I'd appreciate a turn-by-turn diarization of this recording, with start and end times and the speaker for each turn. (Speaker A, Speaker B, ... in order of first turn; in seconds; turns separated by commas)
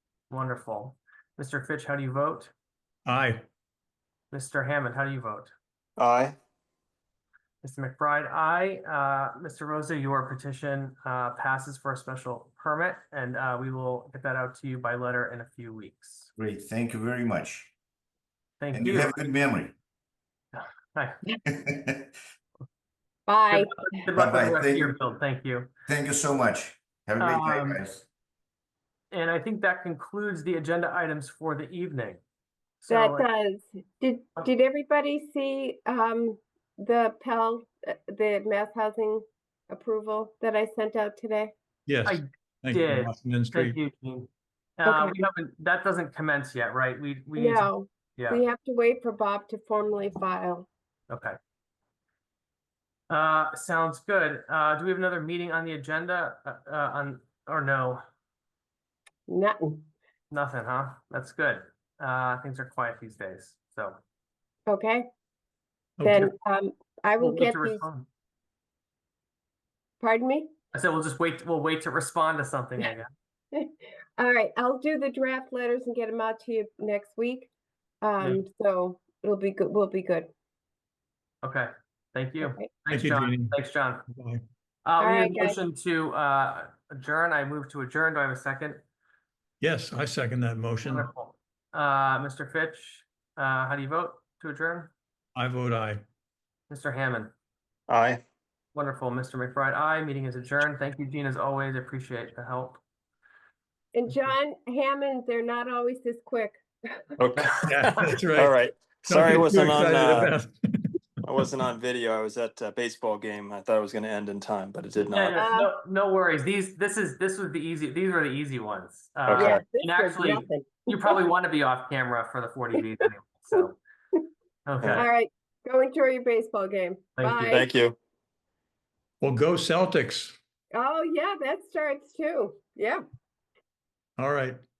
Speaker A: 0.3-2.5, Speaker B: 3.0-3.4, Speaker A: 4.3-5.5, Speaker C: 6.0-6.3, Speaker A: 7.6-16.3, Speaker D: 16.3-17.7, Speaker A: 18.6-19.2, Speaker D: 18.7-19.8, Speaker A: 20.5-21.2, Speaker D: 21.5-22.1, Speaker E: 23.3-23.9, Speaker A: 23.5-25.7, Speaker D: 24.1-24.9, Speaker D: 25.9-28.1, Speaker A: 27.2-27.8, Speaker A: 29.1-32.2, Speaker A: 32.8-33.3, Speaker E: 32.9-41.5, Speaker B: 41.9-43.8, Speaker A: 42.0-48.4, Speaker E: 44.8-45.2, Speaker E: 47.4-50.7, Speaker A: 51.1-51.4, Speaker A: 53.1-58.0, Speaker E: 59.3-59.8, Speaker A: 60.3-64.0, Speaker E: 64.7-65.1, Speaker B: 66.0-66.3, Speaker E: 66.0-67.8, Speaker A: 67.2-68.0, Speaker E: 70.0-70.5, Speaker A: 70.7-73.1, Speaker E: 73.5-77.5, Speaker E: 78.0-80.3, Speaker A: 81.4-84.0, Speaker E: 82.4-82.7, Speaker B: 82.9-83.5, Speaker B: 84.1-84.4, Speaker A: 84.8-88.8, Speaker E: 85.0-85.6, Speaker B: 89.6-91.1, Speaker A: 90.8-94.9, Speaker B: 95.3-96.0, Speaker A: 96.7-97.3, Speaker C: 97.9-98.2, Speaker A: 98.7-102.8, Speaker E: 103.9-107.2, Speaker C: 107.2-110.3, Speaker A: 107.4-108.1, Speaker B: 107.6-108.5, Speaker B: 109.1-110.9, Speaker C: 111.2-115.5, Speaker A: 115.1-123.8, Speaker E: 115.3-115.7, Speaker C: 119.3-119.6, Speaker E: 119.3-121.2, Speaker A: 124.6-125.0, Speaker E: 125.0-127.7, Speaker A: 127.2-127.4, Speaker C: 127.4-128.0, Speaker B: 129.2-130.3, Speaker E: 130.7-133.0, Speaker B: 134.2-134.6